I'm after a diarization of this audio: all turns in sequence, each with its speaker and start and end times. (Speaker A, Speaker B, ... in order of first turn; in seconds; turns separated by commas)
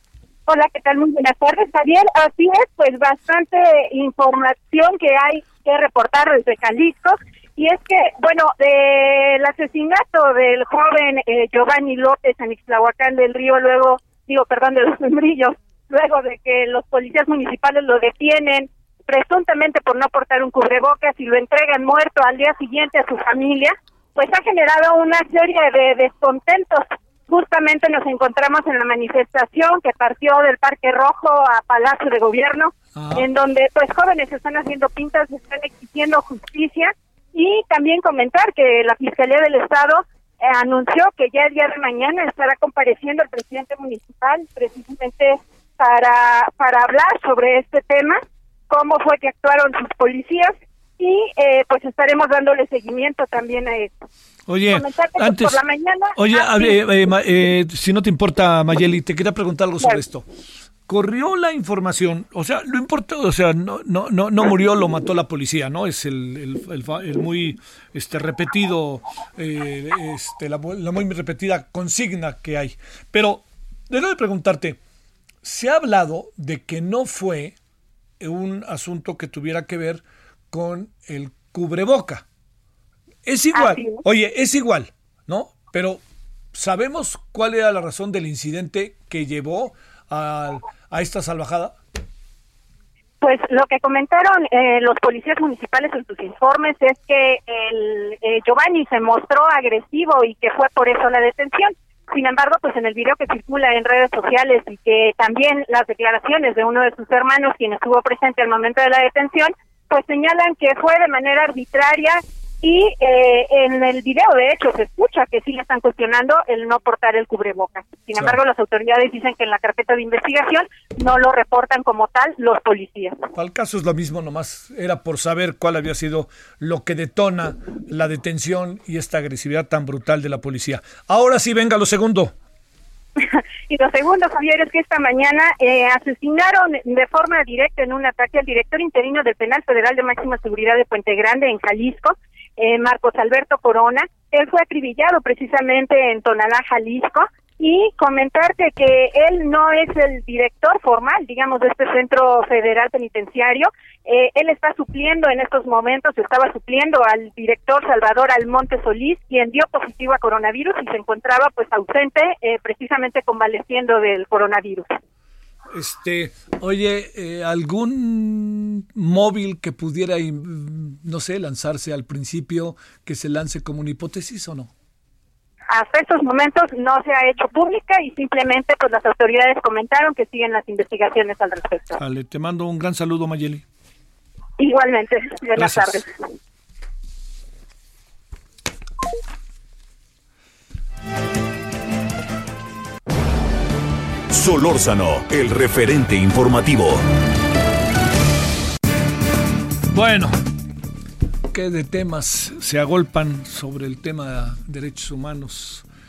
Speaker A: 0.5-53.9, Speaker B: 33.0-33.3, Speaker B: 54.5-55.6, Speaker A: 54.7-56.8, Speaker B: 56.1-60.3, Speaker B: 60.9-74.8, Speaker B: 75.4-77.5, Speaker B: 78.2-82.2, Speaker B: 83.2-86.0, Speaker A: 83.5-84.0, Speaker B: 86.5-91.8, Speaker A: 93.2-123.2, Speaker B: 123.3-132.3, Speaker A: 133.7-164.9, Speaker B: 165.7-174.7, Speaker A: 175.7-182.0, Speaker B: 182.0-183.6, Speaker A: 184.6-186.1, Speaker B: 185.6-186.0, Speaker C: 194.3-197.0, Speaker B: 199.9-200.3, Speaker B: 201.5-205.8